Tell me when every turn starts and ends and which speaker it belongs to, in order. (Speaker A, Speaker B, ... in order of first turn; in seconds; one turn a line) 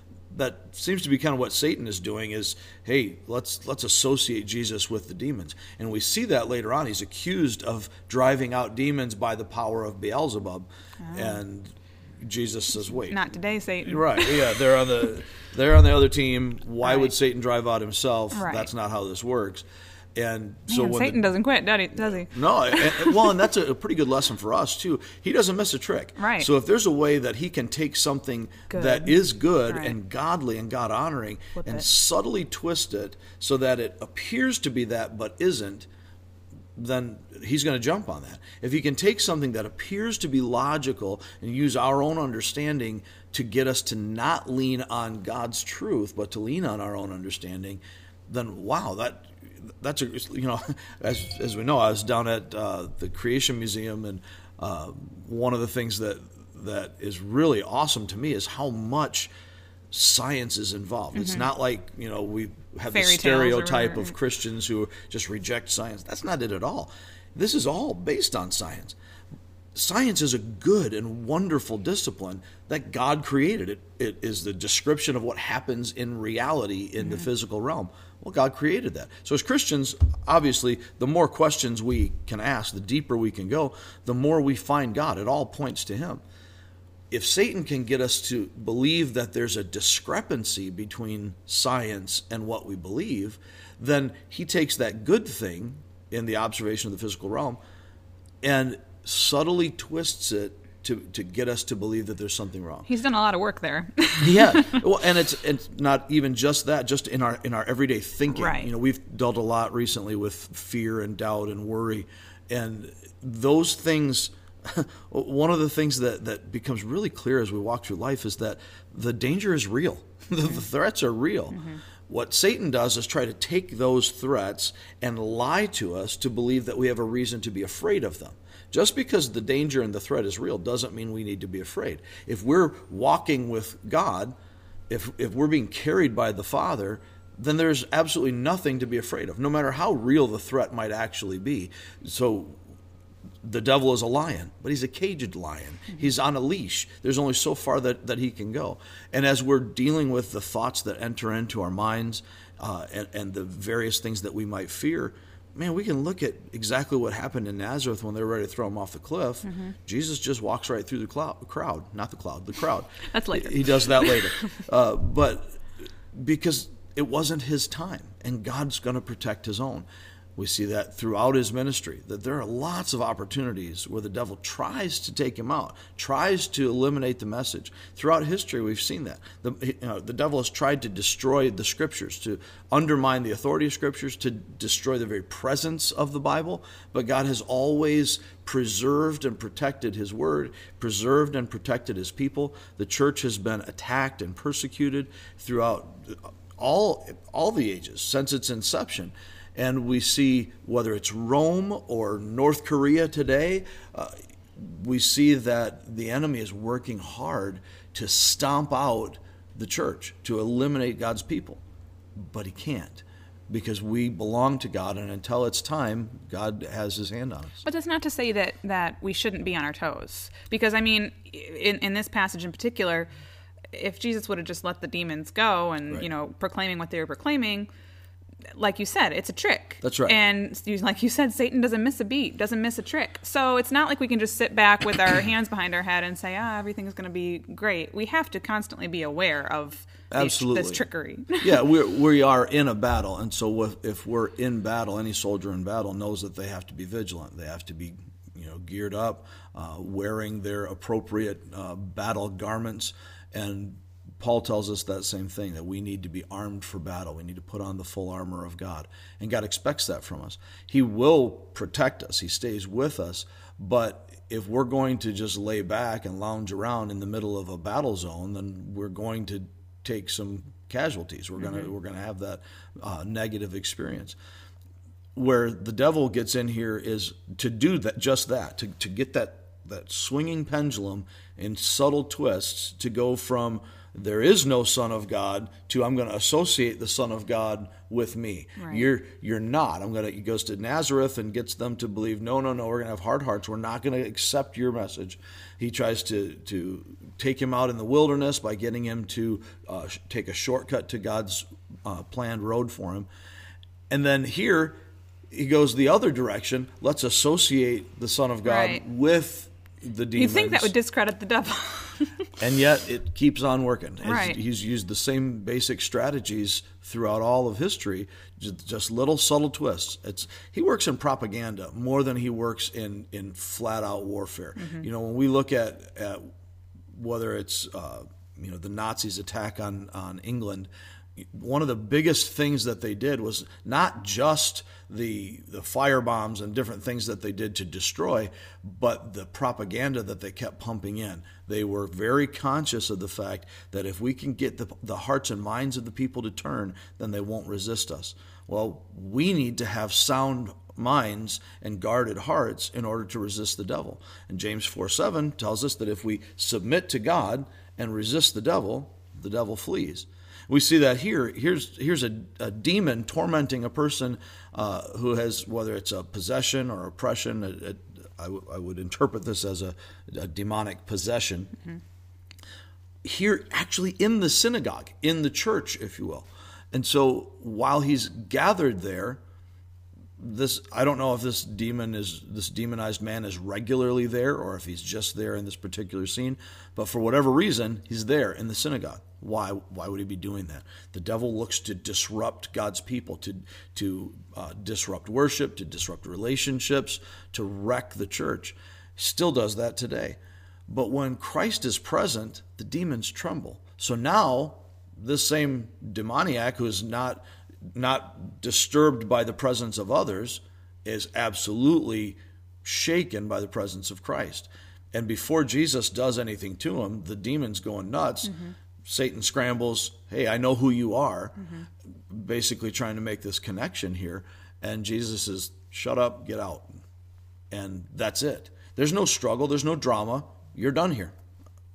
Speaker A: 0.3-13.2
Speaker B: 11.0-11.4
Speaker B: 13.0-14.6
Speaker A: 13.8-21.2
Speaker B: 16.8-17.1
Speaker B: 18.3-18.7
Speaker B: 20.7-23.5
Speaker A: 21.9-35.9
Speaker B: 26.2-26.5
Speaker B: 28.7-29.9
Speaker B: 31.5-31.9
Speaker A: 36.8-59.3
Speaker A: 59.9-69.0
Speaker B: 61.1-61.5
Speaker B: 62.9-64.1
Speaker A: 69.7-86.2
Speaker B: 77.0-77.3
Speaker A: 87.1-97.6
Speaker A: 98.4-102.9
Speaker B: 102.9-104.8
Speaker A: 104.2-134.3
Speaker B: 108.3-108.7
Speaker B: 121.5-121.8
Speaker A: 134.9-142.6
Speaker A: 143.4-165.6
Speaker B: 159.4-159.8
Speaker B: 163.1-164.6
Speaker A: 166.1-211.6
Speaker A: 212.2-217.7
Speaker B: 217.6-223.1
Speaker B: 223.7-227.7
Speaker B: 228.5-241.6
Speaker A: 229.8-230.2
Speaker A: 240.1-240.8
Speaker A: 241.4-274.2
Speaker B: 271.4-271.7
Speaker A: 275.1-303.1
Speaker B: 288.6-288.9
Speaker A: 303.9-304.8
Speaker A: 305.3-310.7
Speaker B: 308.4-308.8
Speaker B: 310.1-312.3
Speaker A: 312.4-326.3
Speaker B: 314.0-314.4
Speaker B: 324.6-324.9
Speaker A: 326.9-371.6
Speaker A: 373.0-379.2
Speaker A: 380.2-421.4
Speaker B: 418.2-418.6
Speaker B: 421.4-421.7
Speaker A: 422.1-426.8
Speaker A: 427.5-431.1